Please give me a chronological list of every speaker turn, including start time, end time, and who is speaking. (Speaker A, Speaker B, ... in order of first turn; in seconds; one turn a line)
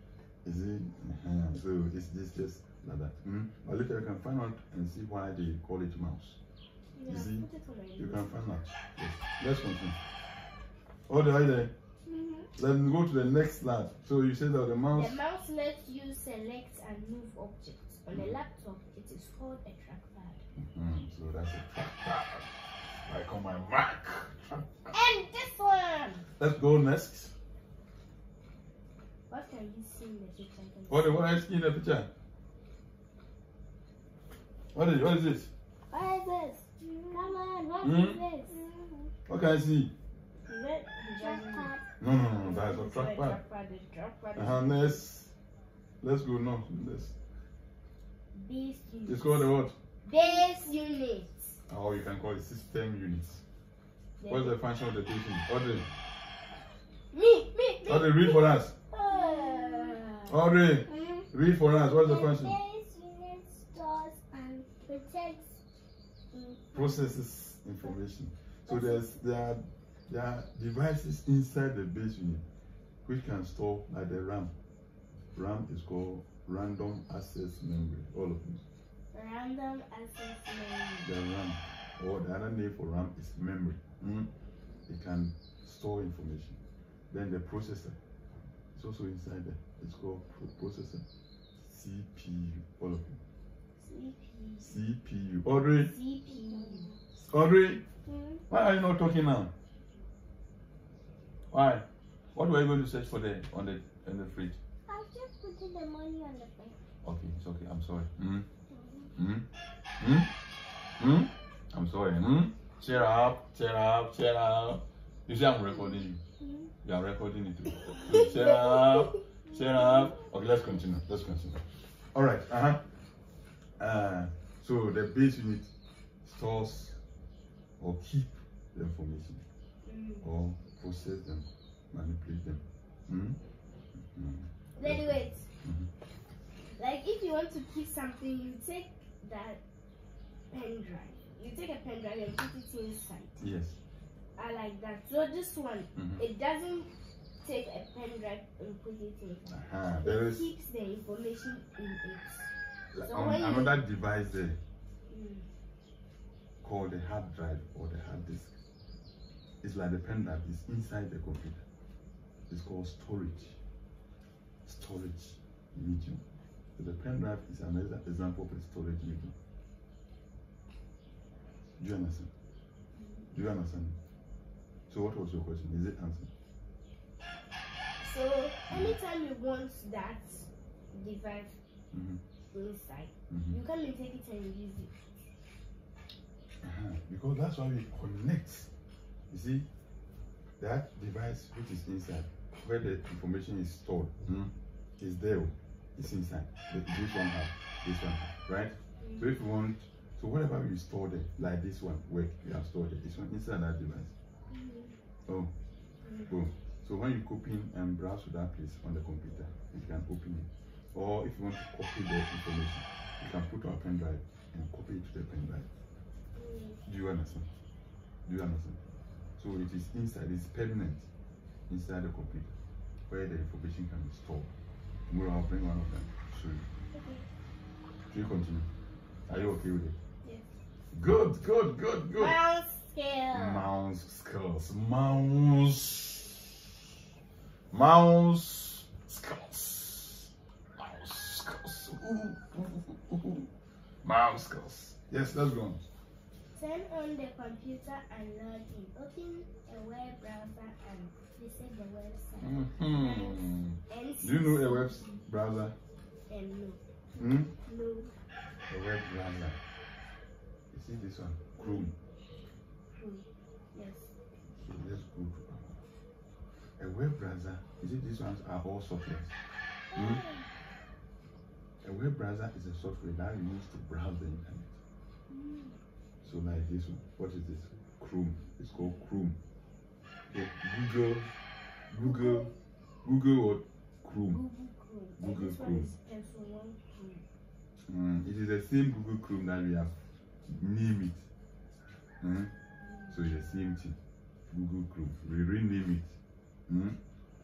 Speaker A: 0.5-6.4
Speaker B: 7.0-8.3
Speaker A: 7.1-10.0
Speaker A: 11.1-11.7
Speaker C: 12.1-12.5
Speaker A: 12.6-15.2
Speaker B: 14.9-20.4
Speaker A: 20.6-22.5
Speaker A: 23.1-24.7
Speaker B: 24.9-26.2
Speaker A: 26.4-27.3
Speaker B: 29.3-31.3
Speaker A: 30.9-32.1
Speaker A: 34.7-35.5
Speaker B: 35.9-38.6
Speaker C: 36.8-37.3
Speaker A: 37.8-38.2
Speaker C: 38.5-39.1
Speaker A: 39.3-39.9
Speaker B: 40.5-41.7
Speaker C: 41.2-41.9
Speaker A: 42.0-43.4
Speaker B: 42.3-45.0
Speaker A: 44.4-45.3
Speaker A: 46.0-47.1
Speaker B: 48.3-49.5
Speaker A: 49.1-49.8
Speaker B: 50.0-51.6
Speaker C: 50.2-50.5
Speaker A: 51.7-53.4
Speaker B: 54.2-54.5
Speaker A: 54.3-55.9
Speaker B: 57.1-60.3
Speaker A: 57.9-58.8
Speaker C: 59.1-60.0
Speaker A: 60.3-62.6
Speaker C: 60.9-61.3
Speaker C: 61.9-65.6
Speaker C: 66.3-67.2
Speaker A: 66.7-72.4
Speaker C: 68.7-69.0
Speaker A: 73.0-74.5
Speaker A: 75.3-78.6
Speaker B: 79.1-81.1
Speaker A: 81.0-84.3
Speaker A: 84.9-86.6
Speaker A: 87.1-88.0
Speaker A: 88.8-91.0
Speaker A: 91.7-93.2
Speaker B: 93.8-94.8
Speaker A: 94.7-95.9
Speaker B: 95.8-97.0
Speaker C: 96.3-97.0
Speaker A: 97.3-97.8
Speaker C: 98.1-98.4
Speaker A: 98.5-99.5
Speaker A: 101.5-104.6
Speaker C: 104.9-106.8
Speaker A: 107.0-108.5
Speaker C: 108.7-109.1
Speaker A: 109.2-109.5
Speaker A: 110.0-110.3
Speaker A: 111.0-116.2
Speaker C: 116.4-116.7
Speaker A: 116.8-121.6
Speaker B: 118.0-119.2
Speaker C: 119.5-120.3
Speaker A: 122.1-122.8
Speaker A: 123.8-125.7
Speaker A: 126.2-127.0
Speaker A: 127.8-129.4
Speaker B: 129.8-130.3
Speaker A: 130.2-133.4
Speaker A: 134.0-135.9
Speaker B: 134.8-135.5
Speaker B: 136.7-139.6
Speaker B: 140.5-143.5
Speaker A: 143.4-143.8
Speaker B: 144.4-146.9
Speaker A: 145.9-146.2
Speaker B: 147.4-153.8
Speaker A: 149.5-150.5
Speaker A: 152.9-154.6
Speaker B: 155.1-155.5
Speaker A: 156.6-158.6
Speaker A: 159.6-161.6
Speaker A: 162.5-163.6
Speaker A: 164.7-166.2
Speaker A: 166.8-169.3
Speaker A: 171.8-172.3
Speaker B: 173.0-173.3
Speaker A: 173.3-174.0
Speaker A: 174.9-176.3
Speaker B: 178.0-181.6
Speaker A: 178.7-178.9
Speaker A: 181.9-182.2
Speaker B: 182.5-184.9
Speaker A: 183.3-183.6
Speaker A: 186.6-188.7
Speaker A: 189.3-189.7
Speaker A: 190.6-204.1
Speaker B: 199.0-199.3
Speaker B: 204.5-205.0
Speaker A: 205.3-205.5
Speaker B: 206.0-206.3
Speaker A: 206.3-215.7
Speaker B: 216.3-216.8
Speaker A: 216.9-217.5
Speaker A: 218.2-218.8
Speaker A: 219.4-221.1
Speaker A: 221.7-222.6
Speaker A: 223.1-224.5
Speaker A: 225.1-226.7
Speaker B: 226.9-227.3
Speaker A: 228.1-228.7
Speaker A: 229.3-230.0
Speaker B: 230.2-230.5
Speaker A: 230.9-232.4
Speaker B: 232.2-233.7
Speaker A: 233.3-236.5
Speaker A: 237.7-243.5
Speaker A: 244.0-245.8
Speaker B: 246.5-255.2
Speaker A: 252.4-255.8
Speaker B: 256.3-258.1
Speaker A: 257.2-257.5
Speaker A: 258.7-259.6
Speaker A: 260.7-261.9
Speaker B: 261.6-261.9
Speaker B: 262.9-264.1
Speaker A: 264.6-265.8
Speaker A: 266.8-269.3
Speaker A: 269.9-270.2
Speaker B: 269.9-270.4
Speaker A: 271.8-274.7
Speaker B: 275.3-275.8
Speaker A: 276.2-279.4
Speaker A: 280.3-281.3
Speaker A: 281.9-282.5
Speaker C: 282.2-282.5
Speaker A: 283.0-284.4
Speaker B: 284.3-287.2
Speaker A: 285.2-285.9
Speaker A: 287.9-289.9
Speaker A: 290.5-291.2
Speaker A: 292.2-292.5
Speaker B: 292.8-293.2
Speaker A: 293.1-294.0
Speaker A: 294.5-296.1
Speaker A: 296.7-297.0